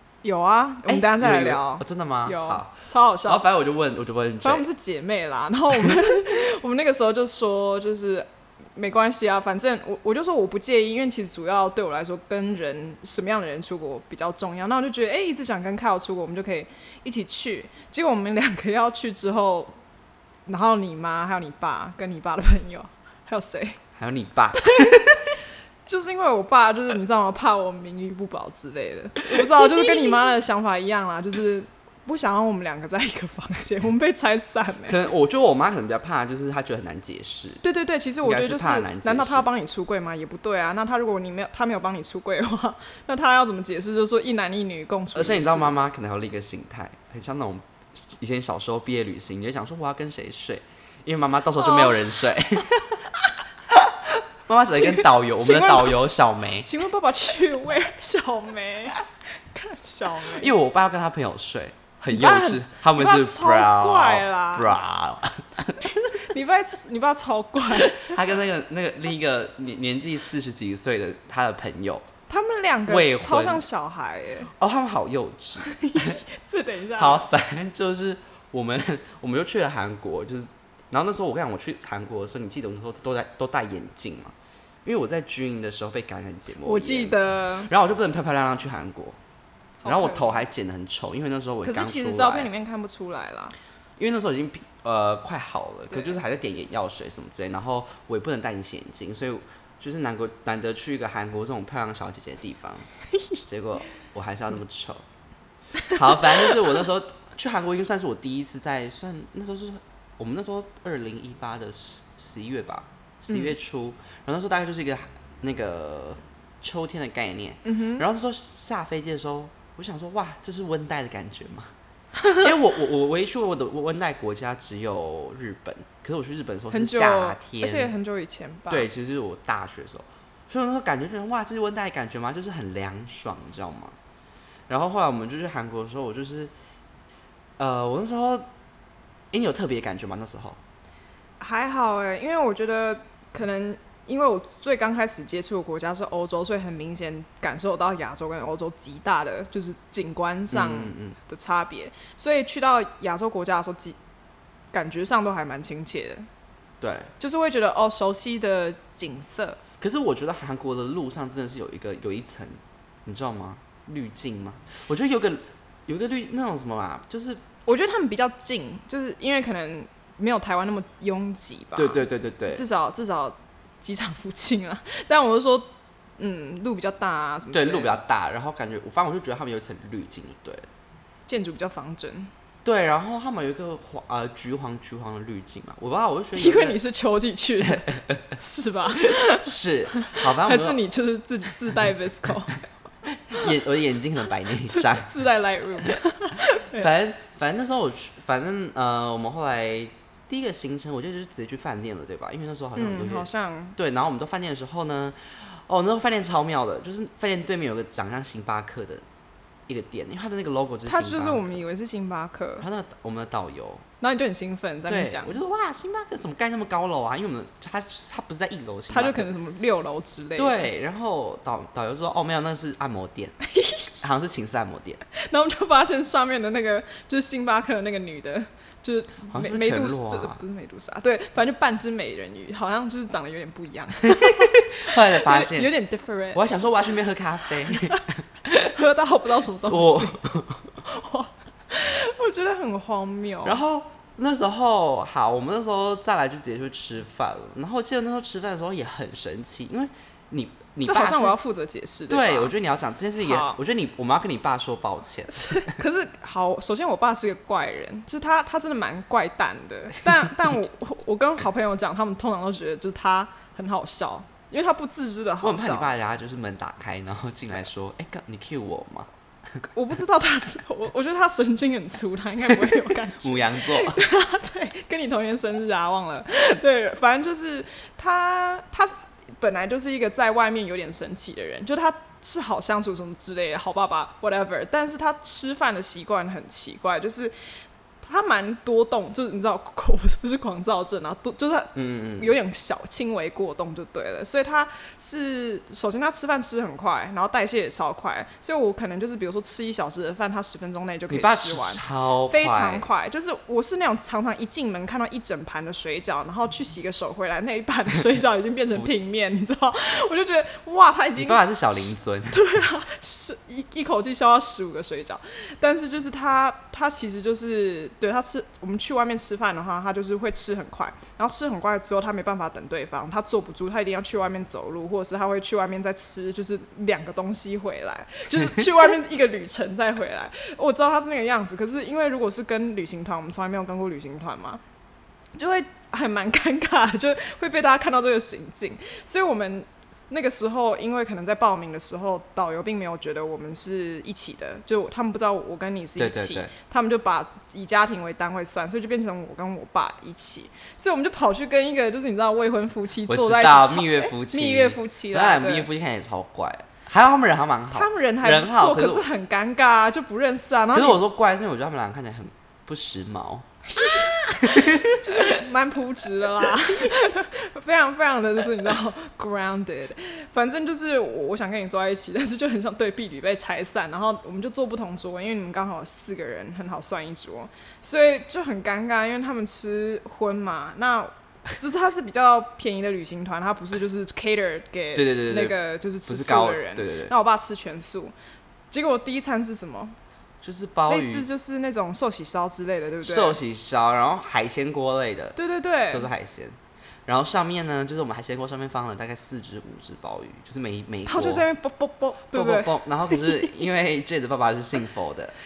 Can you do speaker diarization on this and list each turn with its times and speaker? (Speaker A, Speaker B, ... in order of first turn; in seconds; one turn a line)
Speaker A: 0.2-3.4
Speaker B: 0.9-4.7
Speaker A: 4.4-19.8
Speaker A: 20.5-23.8
Speaker B: 23.9-25.3
Speaker A: 24.5-35.0
Speaker B: 29.4-30.0
Speaker B: 34.9-37.6
Speaker A: 37.6-45.8
Speaker B: 38.2-39.5
Speaker B: 45.1-53.1
Speaker A: 51.6-52.0
Speaker B: 53.7-56.7
Speaker A: 54.8-56.1
Speaker A: 56.6-60.5
Speaker B: 60.2-65.8
Speaker A: 62.1-64.8
Speaker A: 65.8-68.2
Speaker B: 67.7-72.1
Speaker A: 72.3-74.5
Speaker B: 72.9-73.6
Speaker B: 74.6-76.2
Speaker A: 75.6-77.3
Speaker B: 77.0-89.2
Speaker A: 86.6-87.7
Speaker A: 89.8-90.4
Speaker B: 89.8-92.5
Speaker A: 91.6-93.5
Speaker B: 94.0-102.9
Speaker A: 95.9-96.2
Speaker B: 103.5-105.0
Speaker B: 105.8-121.7
Speaker A: 117.7-118.0
Speaker A: 122.2-122.5
Speaker B: 122.3-127.9
Speaker A: 126.7-128.9
Speaker B: 128.7-134.0
Speaker B: 134.7-136.5
Speaker B: 137.6-138.5
Speaker B: 139.3-140.6
Speaker A: 141.4-154.0
Speaker B: 150.5-151.2
Speaker A: 154.7-156.3
Speaker B: 156.8-157.1
Speaker A: 157.2-159.6
Speaker B: 159.8-167.4
Speaker A: 167.7-178.0
Speaker B: 171.8-172.6
Speaker B: 177.5-180.7
Speaker A: 181.3-182.3
Speaker B: 182.6-186.8
Speaker A: 186.4-192.6
Speaker B: 187.7-188.2
Speaker B: 189.0-190.8
Speaker B: 193.3-195.1
Speaker A: 194.7-196.9
Speaker B: 196.7-209.0
Speaker A: 202.8-203.8
Speaker B: 209.7-211.6
Speaker A: 210.9-212.7
Speaker B: 212.6-213.8
Speaker A: 214.0-215.4
Speaker B: 214.9-219.3
Speaker A: 218.9-220.7
Speaker B: 220.4-223.4
Speaker A: 223.5-224.0
Speaker B: 224.0-225.0
Speaker A: 225.1-236.9
Speaker B: 229.3-230.4
Speaker B: 234.0-235.7
Speaker B: 236.3-238.7
Speaker A: 237.7-238.0
Speaker A: 238.6-240.2
Speaker B: 239.6-240.7
Speaker A: 240.8-243.6
Speaker B: 243.4-251.4
Speaker A: 250.8-252.5
Speaker B: 252.1-255.8
Speaker A: 253.2-253.6
Speaker A: 255.3-265.9
Speaker B: 265.4-269.1
Speaker A: 269.7-287.3
Speaker B: 272.5-274.0
Speaker A: 288.0-334.6
Speaker B: 291.8-292.3
Speaker B: 301.1-302.9
Speaker B: 311.2-312.4
Speaker A: 335.4-355.7
Speaker B: 346.0-346.5
Speaker B: 353.1-359.1
Speaker A: 357.7-361.0
Speaker B: 360.7-365.4
Speaker A: 363.7-388.1
Speaker B: 384.9-387.1
Speaker A: 388.7-390.0
Speaker B: 390.4-391.3
Speaker A: 390.9-393.4
Speaker B: 393.0-395.4
Speaker A: 395.4-396.1
Speaker B: 395.9-401.5
Speaker A: 401.1-403.4
Speaker B: 402.3-405.4